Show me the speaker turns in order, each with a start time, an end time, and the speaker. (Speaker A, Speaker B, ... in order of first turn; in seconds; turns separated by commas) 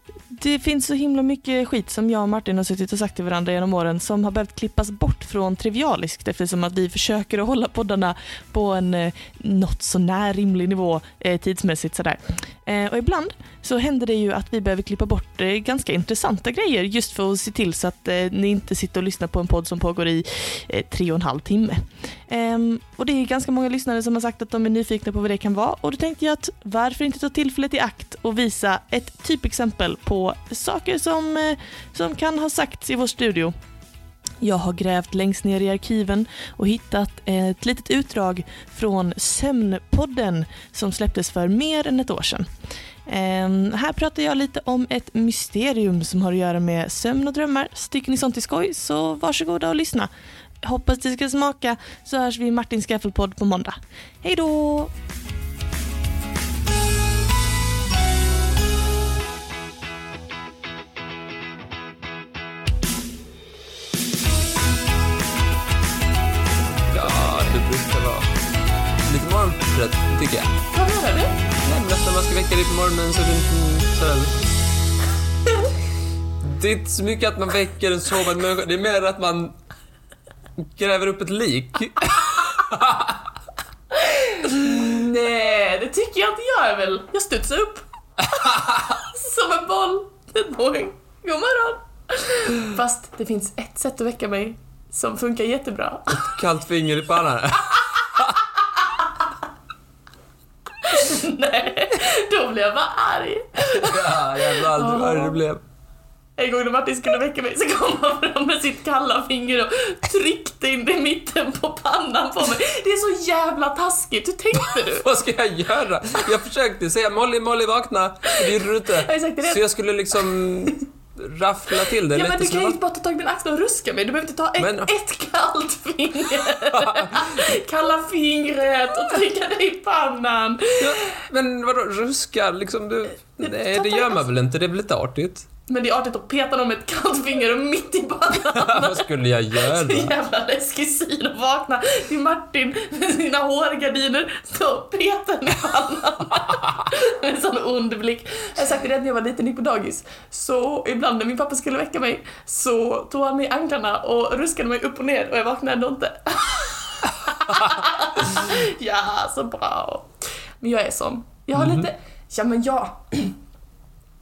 Speaker A: 0.3-33.5, Speaker A: 34.4-42.5, Speaker A: 43.1-50.1, Speaker A: 50.6-54.9, Speaker B: 66.9-68.3, Speaker B: 69.1-70.5, Speaker A: 70.7-71.3, Speaker B: 71.6-74.4, Speaker B: 76.4-79.5, Speaker B: 80.6-83.2, Speaker A: 83.9-96.3, Speaker B: 88.4-88.7, Speaker B: 96.1-98.4, Speaker A: 100.8-105.4, Speaker B: 103.6-105.6, Speaker A: 106.4-115.1, Speaker B: 114.5-122.8, Speaker A: 118.3-120.8, Speaker A: 122.1-131.1, Speaker B: 124.6-124.9, Speaker B: 126.7-127.3, Speaker B: 130.8-135.5, Speaker A: 133.4-134.3, Speaker A: 135.7-163.4, Speaker B: 138.5-140.1, Speaker B: 161.6-161.8